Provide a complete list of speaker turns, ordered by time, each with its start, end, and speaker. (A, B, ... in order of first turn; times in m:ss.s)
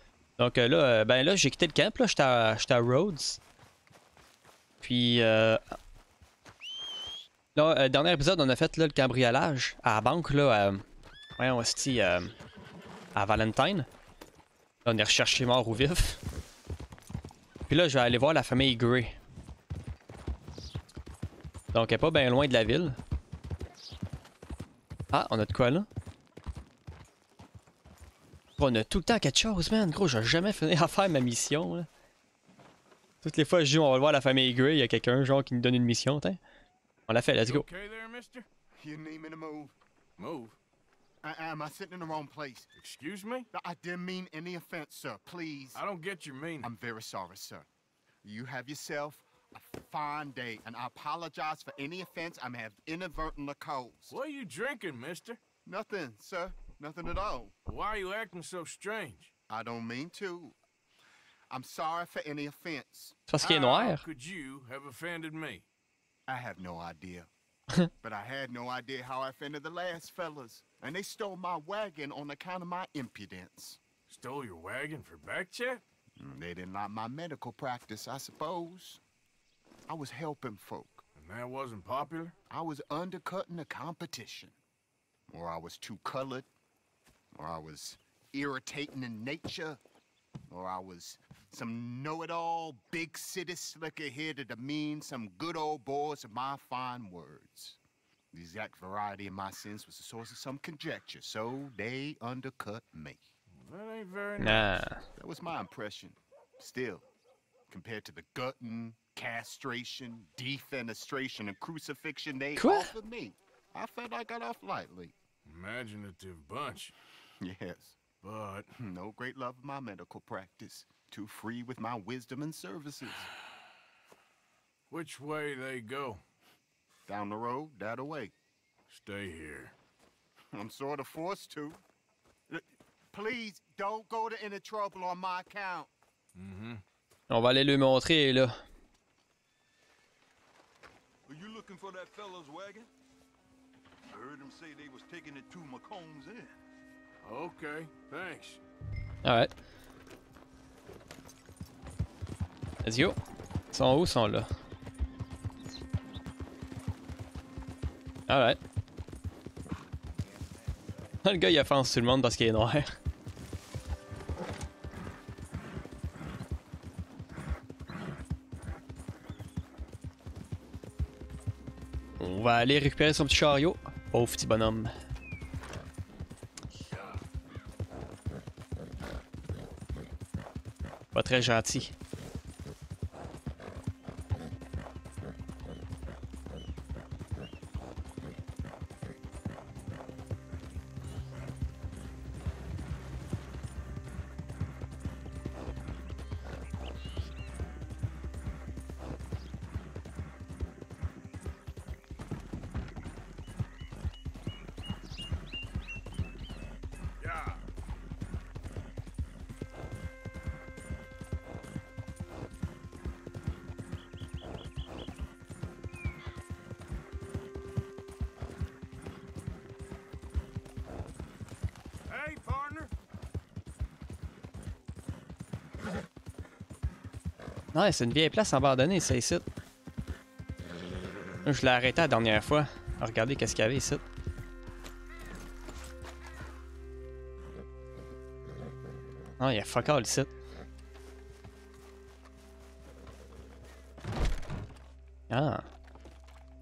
0:00.4-0:03.4 A
0:04.8-0:05.8 A
0:07.5-0:10.8 A
0:11.4-0:12.3 A
0:13.1-0:13.9 A
0:14.8-0:16.2 A
0:17.7-0:19.2 A
0:21.7-0:23.0 A
0:25.1-0:25.9 A
0:28.6-0:31.9 A
0:33.2-0:36.4 A
0:37.1-0:37.6 A
0:37.4-0:38.5 B
0:38.8-0:39.8 C
0:40.2-0:40.6 B
0:41.2-0:42.7 C
0:42.8-0:43.5 B
0:43.5-0:45.8 C
0:45.7-0:46.7 B
0:46.6-0:47.7 C
0:48.2-0:54.2 C
0:54.1-0:55.4 B
0:55.6-0:57.5 C
0:57.7-0:59.3 B
0:59.5-1:00.6 C
1:01.5-1:03.2 C
1:03.3-1:04.0 A
1:03.4-1:05.6 B
1:06.3-1:07.3 C
1:08.0-1:13.8 C
1:14.1-1:15.8 B
1:16.2-1:19.0 C
1:19.9-1:21.0 C
1:21.2-1:22.3 B
1:22.5-1:24.6 C
1:25.3-1:26.5 C
1:27.4-1:29.8 C
1:30.5-1:37.8 C
1:38.3-1:43.3 C
1:43.6-1:44.8 B
1:44.4-1:45.0 A
1:45.2-1:47.1 C
1:47.7-1:55.1 C
1:52.6-1:52.9 A
1:55.4-1:56.9 B
1:57.4-1:58.0 C
1:58.2-1:58.7 B
1:58.8-2:03.3 C
2:04.9-2:06.2 B
2:07.1-2:08.3 C
2:08.9-2:09.7 B
2:10.5-2:11.8 C
2:12.5-2:15.9 C
2:16.3-2:16.8 B
2:17.3-2:18.6 A
2:21.3-2:22.9 D
2:24.1-2:26.5 D
2:27.2-2:28.6 B
2:29.2-2:29.5 A
2:32.8-2:33.2 A
2:33.7-2:34.5 A
2:38.3-2:38.6 A
2:41.2-2:42.9 A
2:52.2-2:54.9 A
2:56.9-2:57.2 B
3:01.1-3:01.9 A
3:27.2-3:27.6 B
3:42.1-3:42.9 B
3:47.7-3:49.4 A
3:51.4-3:54.0 A
3:59.4-4:00.3 A
4:05.3-4:05.6 A